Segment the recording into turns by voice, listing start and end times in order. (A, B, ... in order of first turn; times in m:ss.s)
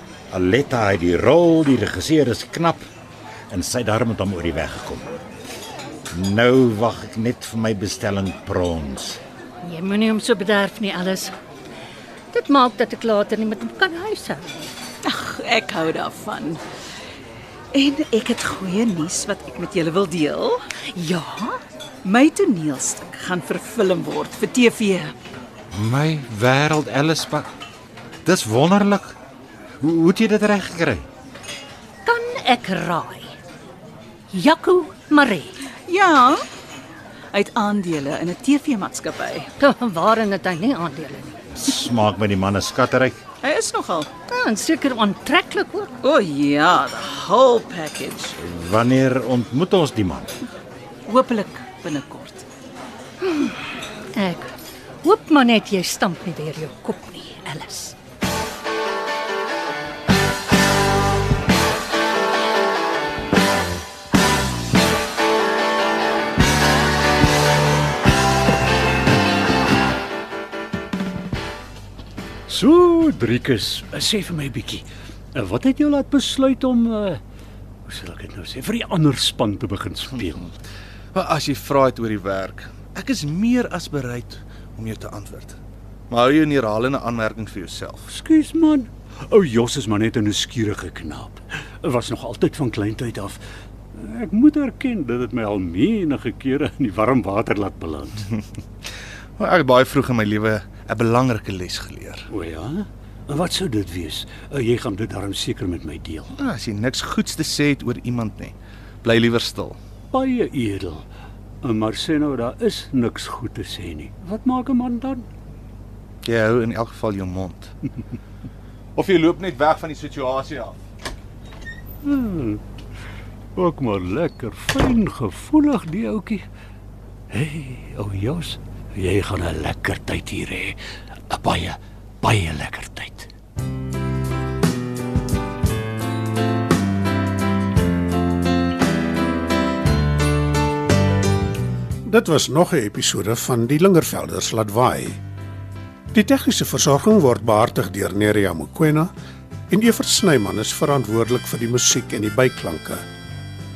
0:00.3-0:02.9 A
0:03.5-0:05.1 A
0:06.1-0:09.2 A
0:09.6-0:11.3 B
0:12.3-0:14.7 B
0:15.0-0:16.6 C
0:17.7-0:20.6 C
0:20.9-0:21.6 B
0:22.0-0:25.1 C
0:25.7-0:27.5 A
0:28.2-0:29.2 A
0:29.8-0:31.0 A
0:32.0-0:33.4 B
0:34.3-0:35.6 B
0:35.8-0:36.4 C
0:37.3-0:39.5 C
0:39.6-0:41.4 B
0:41.5-0:43.2 A
0:43.4-0:44.1 C
0:44.3-0:45.9 B
0:46.0-0:48.3 C
0:48.4-0:50.4 A
0:51.0-0:52.4 C
0:53.2-0:53.6 B
0:54.1-0:57.9 B
1:12.5-1:17.2 D
1:17.9-1:20.5 D
1:21.1-1:25.6 E
1:26.1-1:28.1 E
1:28.1-1:33.4 D
1:33.9-1:38.3 D
1:39.4-1:42.3 E
1:42.3-1:46.3 D
1:46.4-1:49.8 E
1:50.1-1:51.0 D
1:51.6-1:55.2 D
1:56.2-1:57.7 E
1:59.0-2:00.8 E
2:02.0-2:02.6 D
2:03.6-2:06.4 D
2:07.3-2:10.8 D
2:11.3-2:13.3 D
2:22.0-2:25.2 F
2:26.1-2:29.1 F
2:29.7-2:33.0 F